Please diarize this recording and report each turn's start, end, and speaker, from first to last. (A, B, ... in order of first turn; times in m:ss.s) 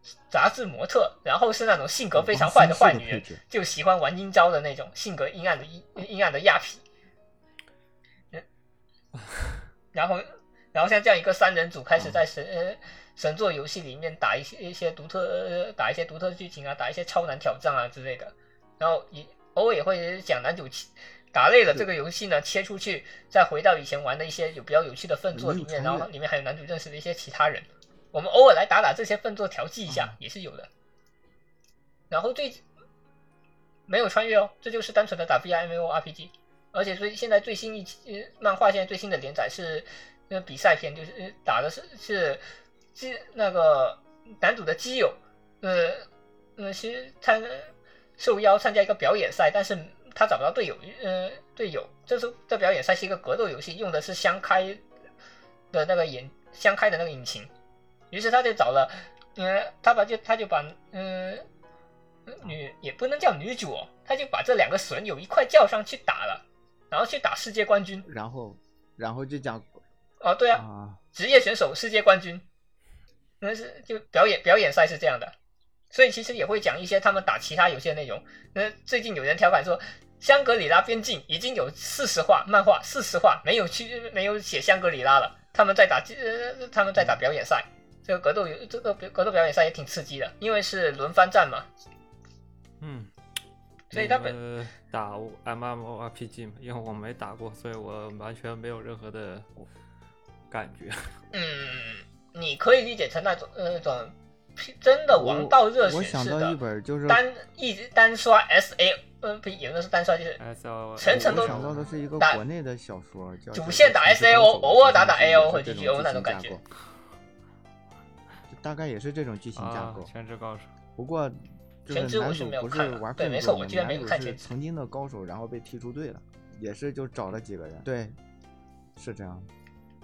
0:00.3-0:06.8 A
0:02.1-0:03.4 B
0:09.9-0:30.7 A
0:25.3-0:26.1 B
0:32.1-0:32.6 A
0:33.9-0:42.4 A
0:42.9-0:46.0 A
0:46.6-0:54.8 A
0:55.7-0:57.5 A
0:58.1-1:01.4 A
1:02.3-1:08.0 A
1:08.0-1:09.8 B
1:10.2-1:10.6 A
1:10.5-1:11.0 B
1:11.1-1:12.4 A
1:13.4-1:15.3 A
1:15.9-1:31.7 A
1:32.8-1:33.1 C
1:33.9-1:34.3 A
1:33.9-1:39.5 C
1:40.5-1:41.1 C
1:41.3-1:50.4 A
1:45.1-1:47.2 B
1:50.4-1:52.0 C
1:51.0-1:51.6 A
1:51.0-1:56.6 B
1:53.5-1:56.6 A
1:58.5-2:00.1 B
1:59.6-2:00.7 C
2:01.0-2:08.2 B
2:01.9-2:04.5 A
2:09.0-2:09.5 B